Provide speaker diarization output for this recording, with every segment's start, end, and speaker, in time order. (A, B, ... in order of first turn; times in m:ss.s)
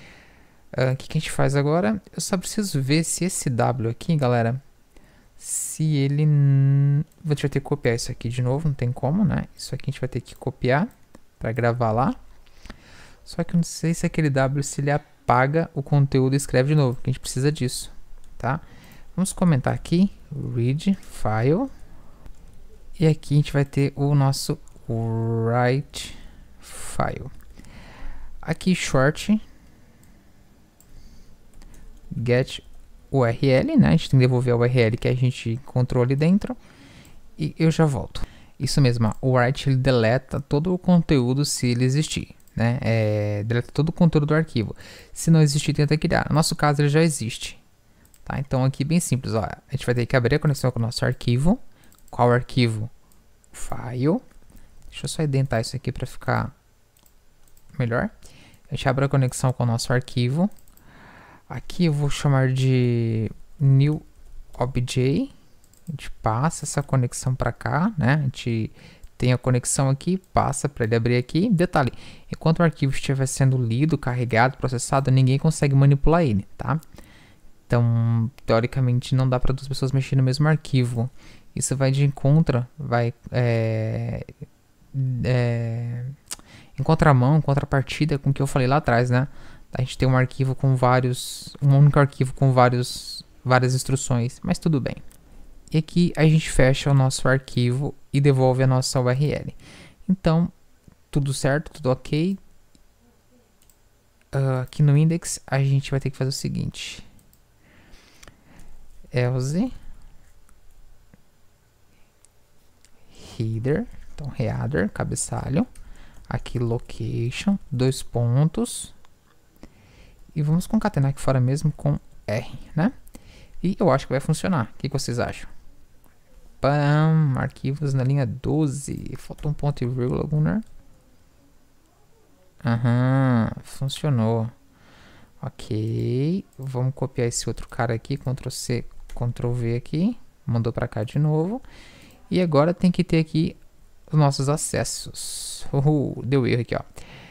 0:00.7-0:04.6 A
0:05.4-0:12.2 A
0:13.2-0:18.6 A
0:19.2-0:21.7 A
0:23.0-0:27.3 A
0:28.4-0:29.4 A
0:32.1-0:36.6 A
0:37.4-0:47.6 A
0:48.2-0:51.6 A
0:52.1-0:52.9 A
0:53.5-0:54.2 A
0:54.9-0:56.6 A
0:57.8-0:58.1 A
0:58.7-1:00.5 A
1:01.5-1:05.3 A
1:05.9-1:16.8 A
1:17.7-1:24.3 A
1:24.9-1:26.2 A
1:26.8-1:35.0 A
1:35.7-1:40.5 A
1:41.1-1:42.4 A
1:44.3-1:47.0 A
1:49.1-1:49.8 A
1:53.1-1:55.7 A
1:56.3-1:59.0 A
2:00.3-2:03.0 A
2:03.6-2:05.5 A
2:06.6-2:10.6 A
2:12.6-2:14.5 A
2:15.4-2:21.6 A
2:22.3-2:23.6 A
2:24.1-2:26.9 A